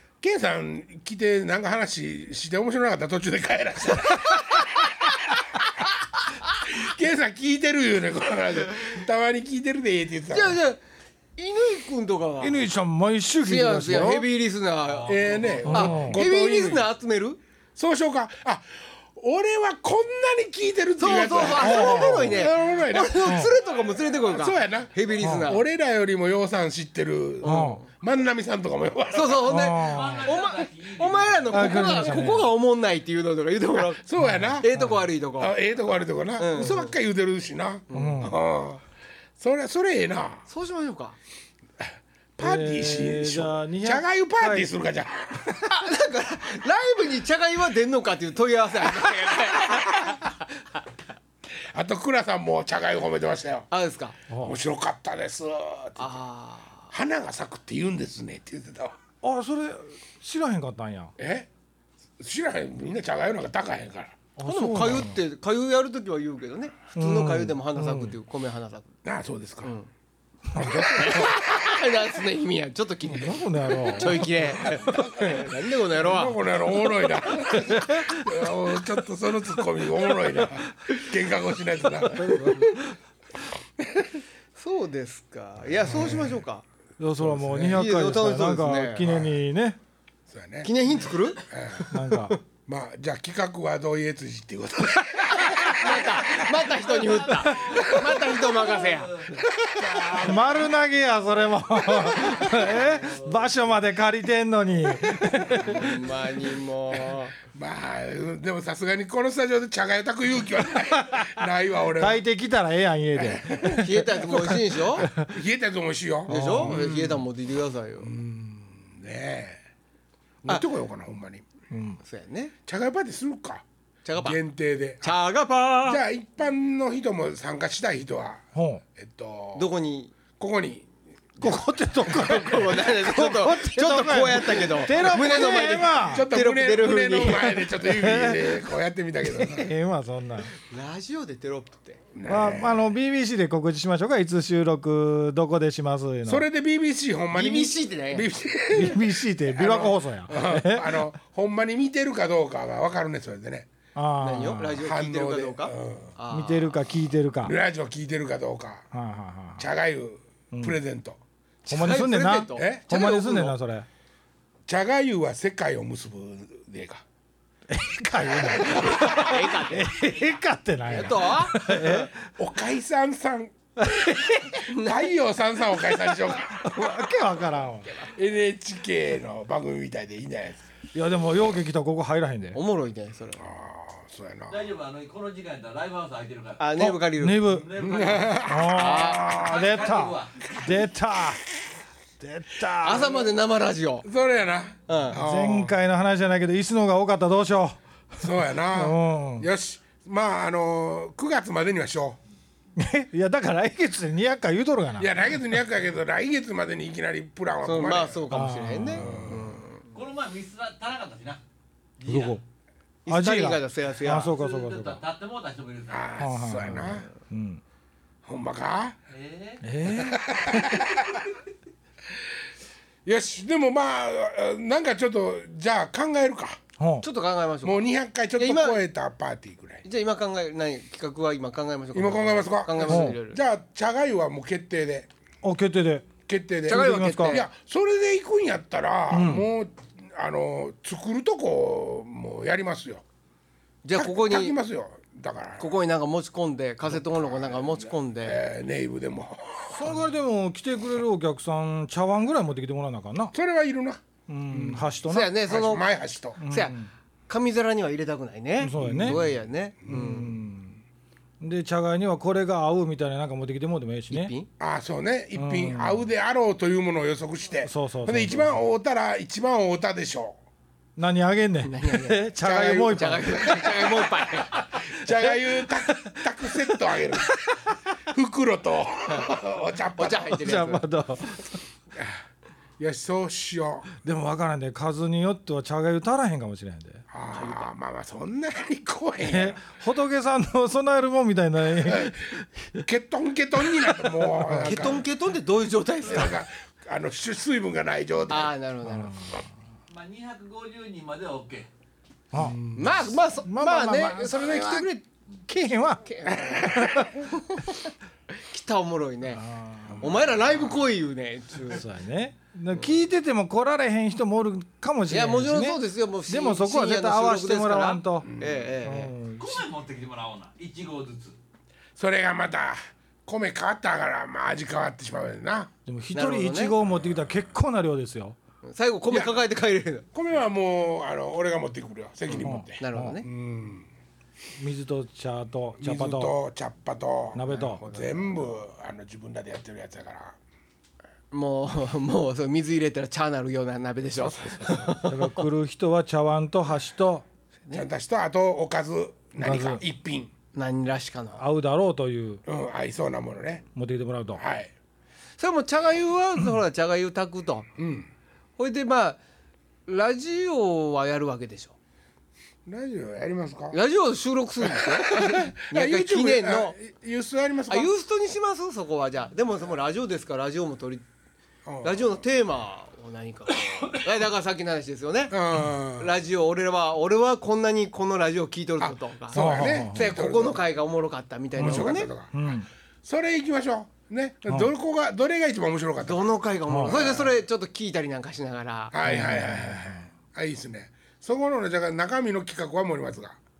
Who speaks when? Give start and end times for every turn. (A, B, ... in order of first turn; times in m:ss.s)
0:00.2-0:05.4 A
0:04.3-0:04.6 B
0:06.6-0:10.6 A
0:10.3-0:10.8 B
0:11.4-0:12.6 B
0:12.4-0:14.3 C
0:13.4-0:17.4 B
0:14.9-0:16.0 D
0:15.0-0:16.9 A
0:15.6-0:16.2 C
0:17.7-0:23.5 A
0:21.0-0:25.6 B
0:21.5-0:22.5 C
0:23.2-0:23.5 C
0:24.2-0:29.7 A
0:25.2-0:25.5 C
0:27.4-0:27.8 C
0:27.4-0:27.8 B
0:29.1-0:34.0 B
0:29.4-0:30.3 C
0:29.8-0:32.2 D
0:31.5-0:32.5 C
0:33.8-0:34.7 A
0:34.2-0:35.0 C
0:34.6-0:35.5 B
0:35.4-0:38.8 A
0:36.4-0:36.9 B
0:37.9-0:38.2 B
0:37.9-0:38.4 C
0:39.4-0:40.4 A
0:40.5-0:41.2 B
0:41.8-0:45.7 A
0:42.4-0:44.7 C
0:45.7-0:50.8 B
0:49.5-0:50.2 A
0:51.5-0:53.7 A
0:53.7-0:54.2 B
0:54.3-0:54.5 C
0:54.3-0:56.2 A
0:56.0-0:56.9 B
0:56.9-0:59.0 A
0:59.2-1:01.1 C
1:01.2-1:01.5 A
1:02.2-1:04.2 A
1:04.4-1:05.2 C
1:04.4-1:08.9 B
1:07.0-1:08.1 C
1:09.0-1:09.7 A
1:09.6-1:09.9 B
1:10.5-1:11.2 C
1:10.5-1:11.5 A
1:10.6-1:16.4 B
1:13.1-1:14.6 C
1:14.7-1:15.4 A
1:16.0-1:22.6 A
1:17.1-1:18.3 B
1:22.0-1:22.8 B
1:22.2-1:22.8 C
1:23.8-1:24.2 A
1:24.5-1:26.6 B
1:25.9-1:26.4 A
1:27.0-1:29.8 C
1:27.2-1:27.9 A
1:27.6-1:29.1 B
1:29.0-1:29.4 A
1:30.3-1:30.7 A
1:30.6-1:32.4 B
1:31.3-1:31.9 A
1:31.9-1:32.4 C
1:32.6-1:36.4 A
1:35.3-1:40.1 B
1:36.2-1:39.4 D
1:39.8-1:45.9 C
1:41.8-1:43.7 D
1:45.2-1:45.9 A
1:45.6-1:47.3 B
1:46.9-1:52.2 A
1:50.9-1:51.4 C
1:51.9-1:55.4 C
1:53.2-1:54.0 A
1:53.7-1:55.1 B
1:55.0-1:57.2 A
1:56.3-1:56.8 C
1:56.3-1:58.1 B
1:58.0-1:59.6 A
2:00.4-2:01.4 A
2:01.7-2:02.0 C
2:02.0-2:02.5 B
2:02.6-2:03.6 A
2:04.0-2:04.4 B
2:04.2-2:05.1 A
2:05.0-2:06.0 B
2:05.8-2:09.7 A
2:08.5-2:08.8 C
2:09.5-2:10.1 B
2:10.4-2:12.4 A
2:11.4-2:16.3 C
2:12.0-2:17.7 B
2:15.0-2:19.7 A
2:17.8-2:18.6 C
2:19.3-2:20.5 C
2:20.6-2:22.0 B
2:22.1-2:22.9 A
2:22.3-2:26.4 C
2:26.2-2:33.7 A
2:27.3-2:28.3 B
2:28.7-2:31.0 C
2:33.9-2:34.8 C
2:34.2-2:36.8 B
2:34.8-2:36.2 A
2:36.3-2:37.5 C
2:37.4-2:38.9 A
2:38.9-2:39.7 C
2:39.6-2:41.2 A
2:41.6-2:43.6 B
2:41.7-2:43.9 C
2:42.6-2:42.9 A
2:44.7-2:47.0 A
2:47.7-2:52.2 C
2:48.3-2:49.1 A
2:48.6-2:50.0 B
2:50.8-2:52.0 B
2:52.2-2:56.7 A
2:54.4-2:55.1 B
2:56.6-2:57.9 C
2:58.0-3:00.6 A
3:00.9-3:02.6 C
3:02.5-3:03.5 B
3:03.4-3:04.7 A
3:04.5-3:08.7 D
3:06.6-3:07.4 B
3:06.8-3:11.5 C
3:07.8-3:09.9 A
3:08.7-3:09.4 B
3:09.3-3:10.5 D
3:10.5-3:10.8 A
3:12.2-3:13.3 C
3:12.8-3:14.0 B
3:12.8-3:13.3 A
3:14.0-3:15.7 A
3:14.9-3:15.2 B
3:15.1-3:17.8 C
3:18.2-3:22.2 A
3:18.6-3:19.5 C
3:22.8-3:25.3 C
3:25.0-3:28.2 A
3:27.6-3:29.9 B
3:28.3-3:29.3 C
3:28.9-3:29.6 A
3:29.9-3:31.4 D
3:32.0-3:32.4 D
3:32.0-3:32.4 C
3:33.0-3:34.3 B
3:33.1-3:35.0 C
3:34.2-3:36.1 D
3:35.9-3:37.1 A
3:36.2-3:37.6 C
3:38.2-3:39.0 A
3:39.1-3:39.6 D
3:39.6-3:40.3 C
3:39.8-3:41.3 A
3:43.0-3:46.6 A
3:46.8-3:47.1 C
3:47.0-3:47.8 B
3:47.6-3:49.8 A
3:48.4-3:48.8 B
3:49.8-3:53.4 B
3:51.9-3:55.1 A
3:52.9-3:53.2 C
3:55.4-3:56.1 C
3:56.2-4:03.0 A
3:56.7-3:57.5 B
3:56.7-3:57.4 C
3:59.1-3:59.5 C
4:03.8-4:04.6 B
4:03.9-4:05.7 A
4:05.6-4:08.4 B
4:06.8-4:10.0 A
4:09.7-4:13.3 C
4:13.3-4:16.4 A
4:14.3-4:15.4 C
4:15.1-4:15.9 B
4:16.4-4:16.9 C
4:16.4-4:16.8 B
4:17.3-4:20.4 B
4:18.6-4:19.2 C
4:18.7-4:19.3 A
4:19.9-4:20.8 C
4:21.4-4:24.3 C
4:24.1-4:24.5 B
4:24.6-4:30.4 A
4:25.3-4:26.1 C
4:27.6-4:28.6 C
4:31.0-4:33.7 C
4:31.6-4:32.3 B
4:32.4-4:37.4 A
4:32.9-4:34.6 B
4:38.1-4:40.4 A
4:40.0-4:40.8 B
4:40.3-4:41.6 C
4:41.9-4:42.2 A
4:42.8-4:43.9 A
4:44.0-4:47.0 C
4:47.1-4:49.6 A
4:47.3-4:47.7 B
4:49.2-4:52.8 C
4:51.8-4:52.2 A
4:52.7-4:55.0 A
4:54.4-4:55.0 C
4:54.6-4:56.4 B
4:56.0-4:58.5 A
4:58.3-4:59.2 B
4:58.9-4:59.4 C
4:59.9-5:01.7 D
5:02.3-5:04.9 C
5:02.3-5:03.1 A
5:02.7-5:05.0 B
5:05.5-5:06.0 C
5:06.0-5:09.4 B
5:06.2-5:07.3 A
5:09.3-5:10.1 C
5:09.9-5:10.7 A
5:10.0-5:11.8 B
5:11.7-5:18.3 C
5:15.1-5:19.1 B
5:18.2-5:18.7 A
5:18.8-5:19.6 C
5:19.4-5:21.4 D
5:22.0-5:25.7 A
5:25.8-5:28.4 C
5:26.1-5:26.8 B
5:26.9-5:27.2 A
5:28.6-5:30.1 B
5:29.1-5:29.4 A
5:30.1-5:33.9 A
5:32.4-5:33.2 C
5:32.8-5:33.3 B
5:34.6-5:36.3 C
5:35.8-5:40.4 A
5:37.3-5:37.8 C
5:37.5-5:38.4 B
5:41.3-5:45.5 B
5:44.2-5:45.0 A
5:44.6-5:47.2 C
5:47.7-5:50.3 A
5:49.4-5:49.8 C
5:50.5-5:51.4 B
5:51.4-5:52.4 C
5:52.4-5:53.6 A
5:53.7-5:54.4 C
5:54.3-5:54.7 A
5:55.4-5:57.7 B
5:57.8-5:58.1 A
5:58.6-5:59.2 B
5:59.9-6:01.7 B
6:02.6-6:03.8 A
6:03.7-6:06.8 B
6:04.6-6:07.9 A
6:07.7-6:11.0 B
6:11.6-6:12.1 A
6:11.8-6:22.1 B
6:15.3-6:16.1 A
6:18.8-6:20.6 A
6:19.3-6:20.2 C
6:21.6-6:27.3 A
6:21.6-6:22.7 C
6:26.0-6:28.9 B
6:26.7-6:27.0 C
6:28.9-6:33.4 A
6:29.0-6:30.0 C